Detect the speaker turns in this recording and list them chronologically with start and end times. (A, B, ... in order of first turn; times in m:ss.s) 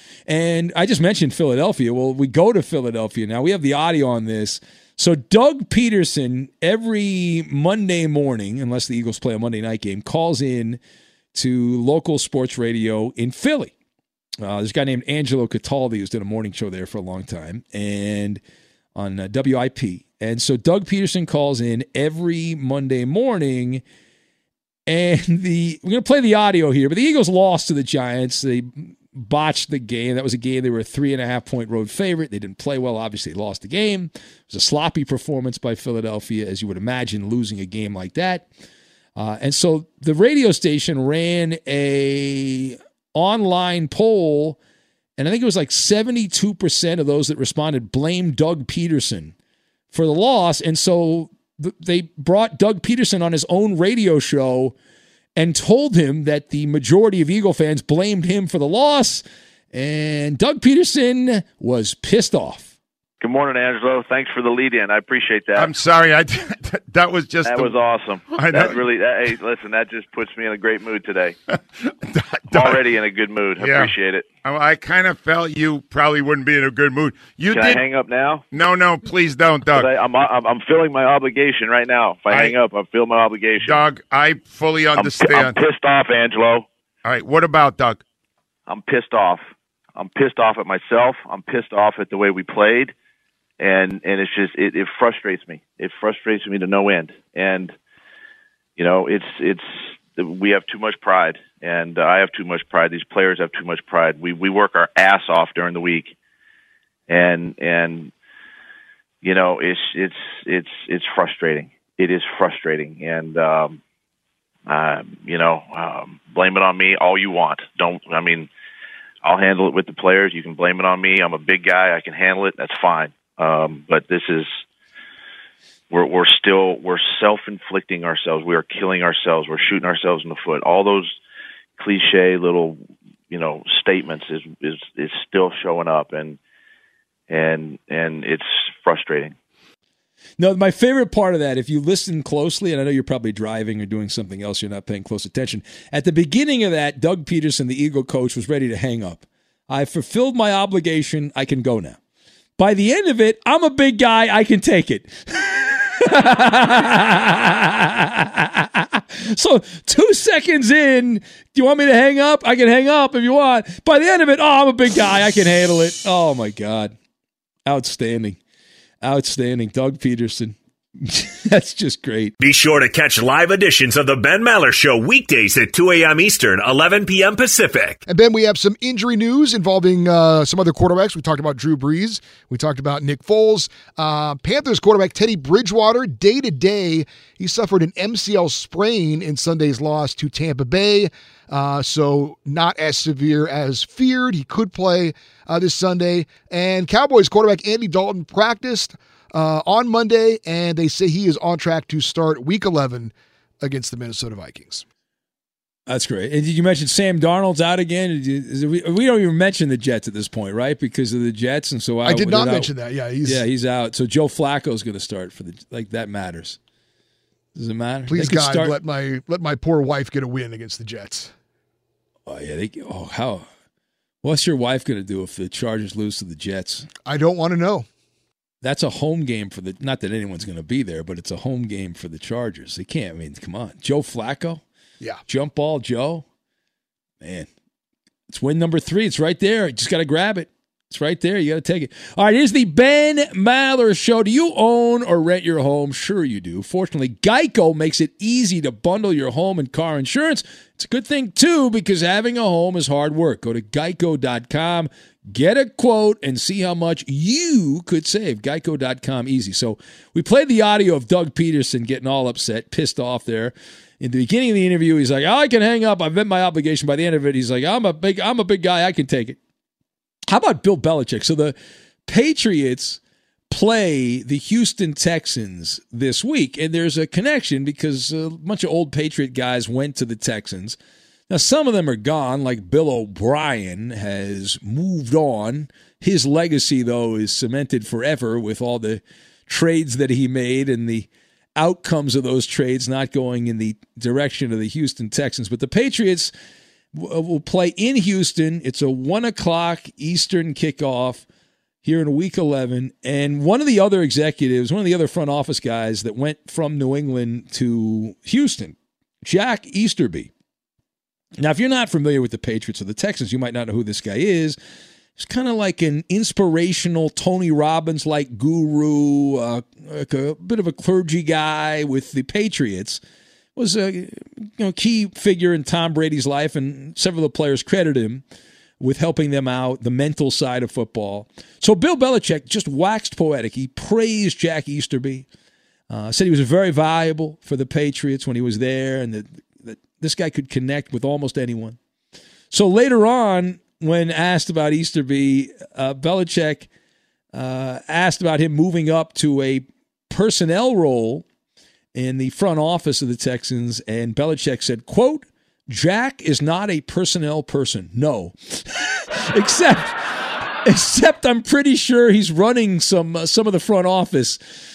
0:00.3-0:10.8 A
0:11.3-0:13.7 A
0:14.4-0:18.4 A
0:19.0-0:23.8 A
0:24.9-0:38.5 A
0:39.2-0:44.6 A
0:45.2-0:49.3 A
0:49.9-0:54.8 A
0:55.4-1:02.7 A
1:03.2-1:05.8 B
1:05.6-1:07.8 C
1:07.4-1:11.4 B
1:08.3-1:08.9 C
1:12.1-1:12.9 C
1:12.5-1:14.3 B
1:13.6-1:17.8 C
1:17.4-1:18.4 B
1:18.5-1:19.9 C
1:19.7-1:23.9 B
1:22.3-1:22.6 C
1:23.6-1:25.6 C
1:24.9-1:26.7 B
1:27.0-1:28.0 C
1:28.7-1:32.9 B
1:33.6-1:37.8 B
1:38.8-1:46.2 B
1:47.1-1:48.1 B
1:49.2-1:53.8 B
1:54.7-1:58.5 B
1:59.2-2:04.6 B
2:05.9-2:11.2 B
2:11.8-2:16.4 B
2:17.3-2:19.4 B
2:20.4-2:32.0 A
2:32.6-2:47.0 A
2:47.7-2:48.4 A
2:49.0-2:52.3 A
2:52.4-2:58.0 D
2:58.1-3:24.8 E
3:25.9-3:36.6 A
3:32.0-3:33.4 E
3:37.6-3:38.8 A
3:38.1-3:41.3 E
3:42.3-3:43.5 A
3:44.2-3:46.9 A
3:47.0-3:47.9 E
3:48.6-3:54.6 A
3:55.3-3:56.2 A
3:57.2-3:57.5 A
3:58.3-4:29.4 A
4:30.3-4:40.8 A
4:41.3-4:56.3 A
4:56.9-5:01.2 A
5:01.8-5:10.3 A
5:11.4-5:14.6 A
5:15.2-5:23.0 A
5:23.6-5:28.2 A
5:28.8-5:35.3 A
5:35.9-5:41.8 A
5:42.5-5:46.7 A
5:47.3-5:51.3 A
5:52.0-5:58.6 A
5:59.3-6:00.0 A
6:00.7-6:04.4 A